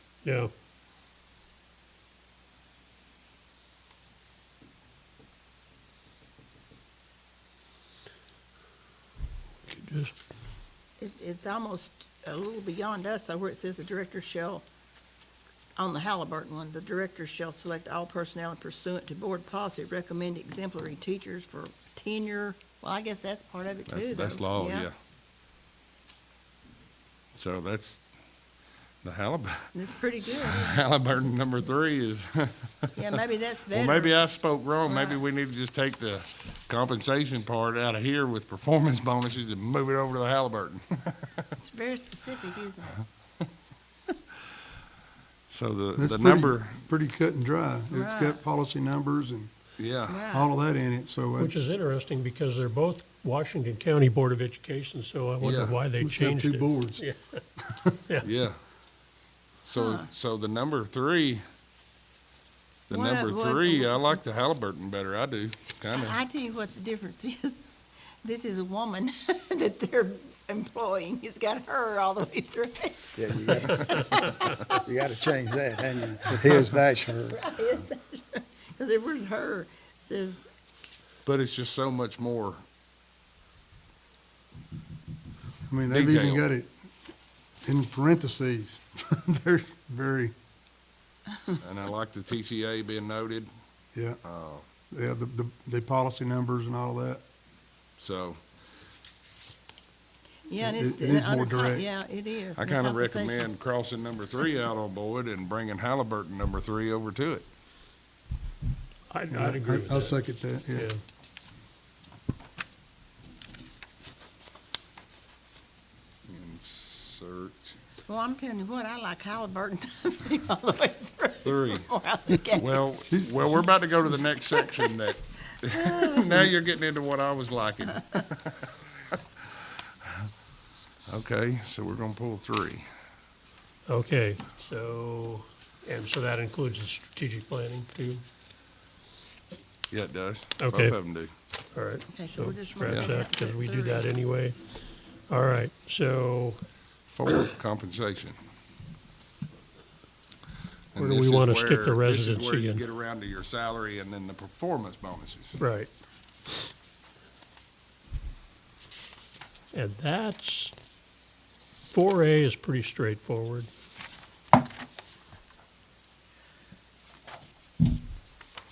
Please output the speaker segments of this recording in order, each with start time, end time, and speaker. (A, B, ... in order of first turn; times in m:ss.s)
0:00.2-0:00.5 A
0:09.7-0:10.2 A
0:11.0-0:14.6 B
0:15.8-0:24.9 B
0:23.9-0:24.9 C
0:27.3-0:28.0 C
0:29.0-0:29.7 C
0:29.7-0:30.8 B
0:30.2-0:32.9 C
0:32.9-0:34.2 B
0:33.7-0:41.2 C
0:34.8-0:35.2 B
0:41.6-0:43.0 B
0:45.5-0:46.8 C
0:46.0-0:49.5 D
0:47.9-0:48.4 B
0:49.8-0:50.3 C
0:50.1-0:50.5 B
0:50.3-0:51.6 D
0:51.4-0:57.4 A
0:55.4-0:55.8 C
0:56.0-0:57.0 D
0:58.2-0:58.6 C
0:59.6-1:01.4 C
0:59.7-1:00.1 B
1:02.9-1:06.2 C
1:02.9-1:04.2 B
1:05.9-1:07.7 B
1:08.2-1:14.8 B
1:13.2-1:13.7 E
1:14.9-1:17.3 E
1:15.3-1:16.5 B
1:15.9-1:16.8 D
1:17.1-1:20.5 B
1:21.2-1:22.6 C
1:25.7-1:26.7 D
1:25.9-1:26.4 C
1:27.6-1:30.3 D
1:31.6-1:33.5 C
1:33.9-1:34.2 D
1:34.2-1:34.6 C
1:34.9-1:37.2 D
1:38.0-1:38.4 C
1:40.5-1:43.5 B
1:40.6-1:41.8 D
1:42.6-1:47.4 C
1:49.1-1:51.0 A
1:49.3-1:50.9 D
1:56.3-1:57.7 C
1:58.1-2:02.8 B
2:01.4-2:01.9 C
2:02.6-2:08.6 C
2:03.1-2:03.9 D
2:05.7-2:06.5 B
2:11.1-2:12.8 C
2:13.9-2:18.2 A
2:19.9-2:21.3 C
2:20.6-2:21.0 A
2:21.7-2:24.6 A
2:22.1-2:24.0 B
2:25.3-2:26.6 A
2:27.1-2:28.4 C
2:30.9-2:35.6 C
2:31.0-2:32.8 A
2:35.6-2:35.9 A
2:39.7-2:40.7 A
2:41.9-2:43.7 A